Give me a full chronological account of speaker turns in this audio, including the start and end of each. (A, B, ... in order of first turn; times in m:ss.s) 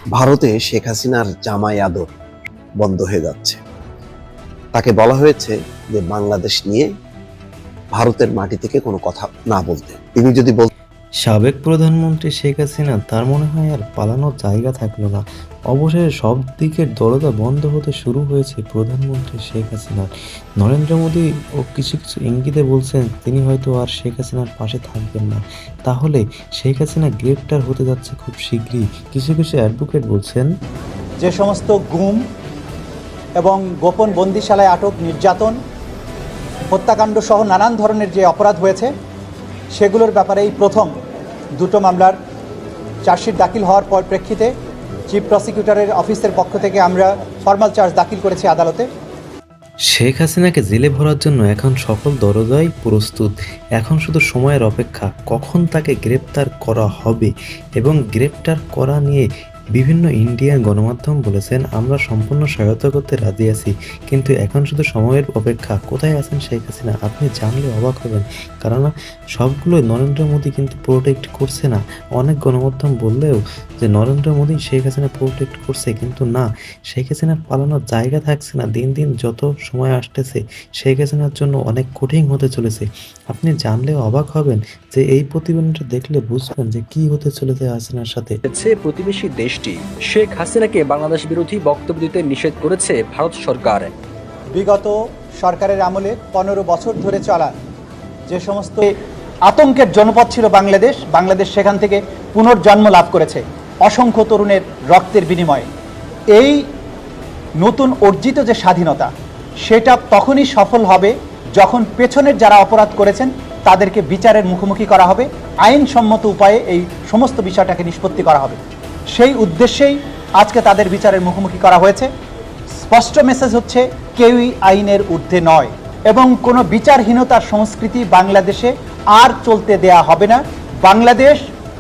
0:00.2-0:02.1 A
0:02.8-0:03.6 A
0:04.8-0:06.9 A
0:07.9-0:10.7 A
0:11.2-0:30.5 B
0:31.2-0:32.2 C
0:33.4-0:35.6 C
0:36.7-0:38.9 C
0:39.7-0:40.9 C
0:41.6-0:42.2 C
0:43.0-0:44.5 C
0:45.1-0:48.9 C
0:49.9-1:28.4 B
1:28.4-1:33.9 D
1:34.5-1:37.6 C
1:38.3-1:38.9 C
1:39.4-1:45.7 C
1:46.3-1:46.6 C
1:47.6-1:49.1 C
1:49.6-1:58.6 C
1:59.1-2:02.1 C
2:02.8-2:11.4 C